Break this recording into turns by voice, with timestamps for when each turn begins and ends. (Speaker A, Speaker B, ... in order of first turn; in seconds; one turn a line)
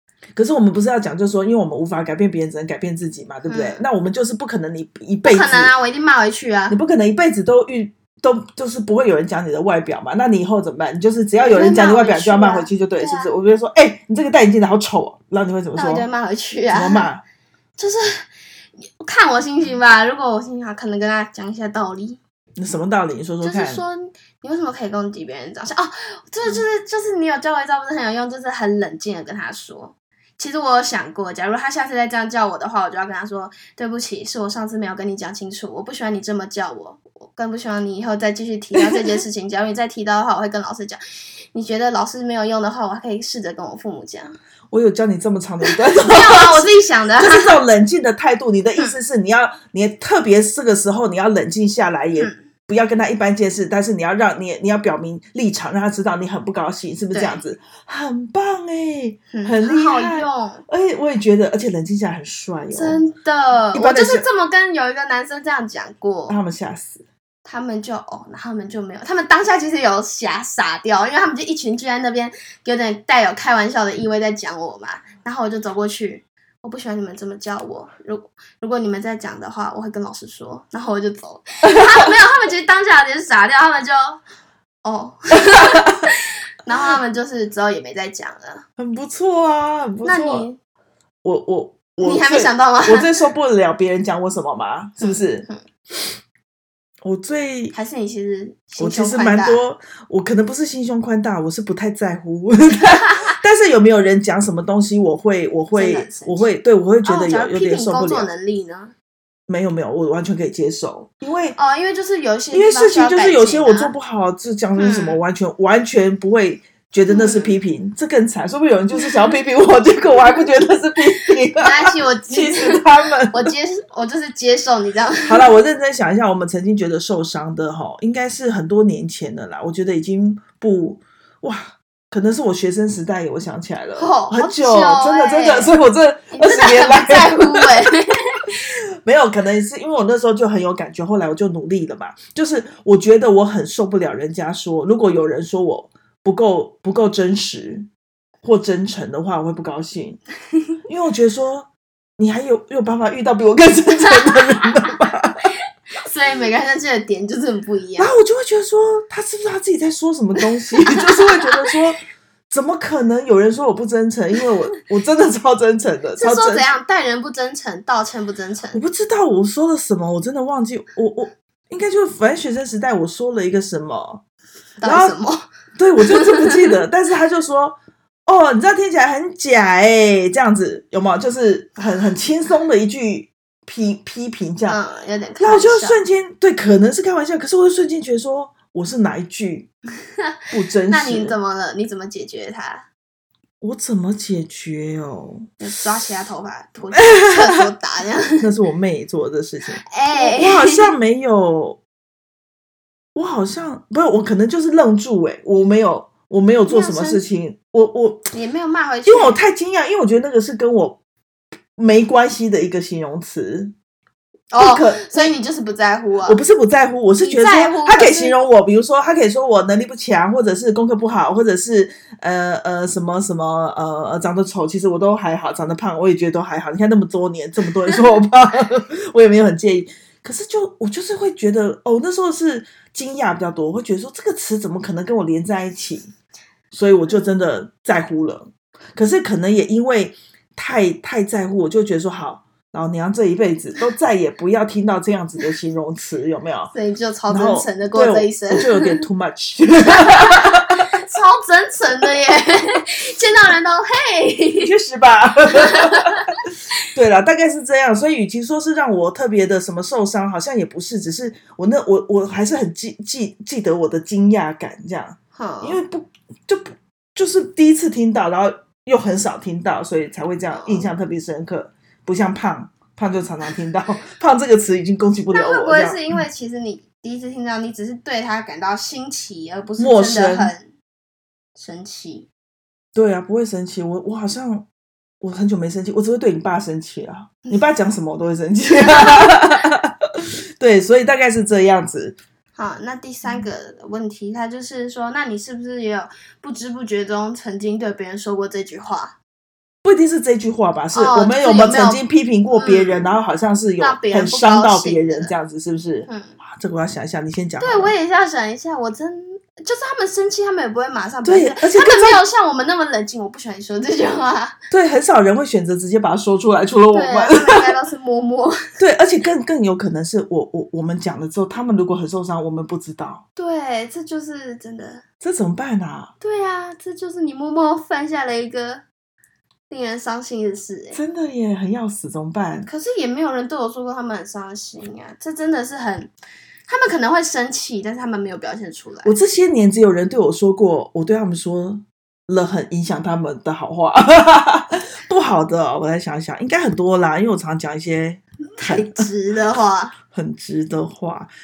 Speaker A: 0.3-5.7
Speaker B: 3.5-3.8
Speaker B: 5.2-6.8
Speaker A: 6.7-16.1
Speaker B: 11.4-13.3
Speaker B: 15.8-17.1
Speaker A: 16.7-17.2
Speaker B: 17.8-18.2
Speaker B: 18.8-22.2
Speaker A: 22.6-23.8
Speaker B: 23.4-41.0
Speaker B: 41.5-44.3
Speaker A: 44.7-63.0
Speaker B: 46.0-47.6
Speaker B: 57.1-57.4
Speaker B: 59.3-60.6
Speaker B: 62.7-66.4
Speaker A: 63.7-64.2
Speaker A: 66.3-67.0
Speaker B: 67.4-84.2
Speaker A: 81.7-81.9
Speaker B: 84.8-86.1
Speaker A: 85.5-86.0
Speaker B: 86.6-88.6
Speaker A: 88.8-90.5
Speaker B: 90.0-90.6
Speaker A: 91.2-95.5
Speaker B: 92.0-93.1
Speaker B: 95.0-95.6
Speaker A: 97.0-97.7
Speaker B: 97.7-99.6
Speaker A: 98.8-108.3
Speaker B: 105.7-106.5
Speaker B: 107.0-108.9
Speaker A: 109.5-111.6
Speaker B: 111.5-113.9
Speaker A: 112.5-123.5
Speaker B: 114.8-115.2
Speaker B: 117.1-117.6
Speaker B: 121.5-125.5
Speaker A: 125.2-137.8
Speaker B: 134.0-135.7
Speaker B: 136.3-138.5
Speaker A: 139.0-147.9
Speaker A: 148.4-150.2
Speaker A: 150.9-155.5
Speaker B: 154.2-154.7
Speaker B: 156.0-158.1
Speaker A: 158.0-166.7
Speaker B: 160.9-161.6
Speaker B: 166.2-168.8
Speaker A: 168.7-174.2
Speaker B: 174.8-175.4
Speaker A: 174.8-175.2
Speaker A: 175.8-184.8
Speaker B: 176.2-176.6
Speaker B: 184.7-186.0
Speaker A: 185.4-189.7
Speaker A: 190.5-191.3
Speaker B: 190.9-192.9
Speaker A: 193.6-195.5
Speaker B: 195.6-198.5
Speaker A: 196.9-197.6
Speaker A: 198.4-201.8
Speaker B: 199.8-200.9
Speaker A: 203.1-208.3
Speaker B: 206.6-207.2
Speaker B: 208.3-209.4
Speaker A: 209.1-211.0
Speaker A: 211.8-213.7
Speaker B: 214.5-216.4
Speaker A: 214.6-215.3
Speaker A: 216.2-236.1
Speaker B: 217.2-218.4
Speaker A: 236.7-246.7
Speaker B: 246.7-249.0
Speaker A: 247.3-250.8
Speaker B: 250.0-254.7
Speaker A: 254.6-256.3
Speaker B: 255.6-256.2
Speaker A: 256.9-276.2
Speaker B: 265.3-265.8
Speaker B: 270.5-270.9
Speaker B: 275.3-280.7
Speaker A: 279.8-280.5
Speaker B: 281.6-282.3
Speaker A: 282.9-284.7
Speaker A: 285.2-292.1
Speaker B: 288.7-289.4
Speaker B: 292.5-299.1
Speaker A: 299.8-307.9
Speaker B: 300.9-303.1
Speaker B: 303.8-305.3
Speaker B: 306.1-306.4
Speaker B: 307.6-314.6
Speaker A: 311.2-312.2
Speaker A: 314.7-317.7
Speaker B: 316.9-318.6
Speaker A: 318.8-323.2
Speaker B: 323.4-325.0
Speaker A: 325.2-326.1
Speaker B: 326.2-328.8
Speaker B: 329.7-331.0
Speaker A: 330.9-332.7
Speaker B: 332.6-336.1
Speaker B: 336.7-339.1
Speaker A: 339.0-349.1
Speaker B: 348.6-349.9
Speaker A: 350.1-351.3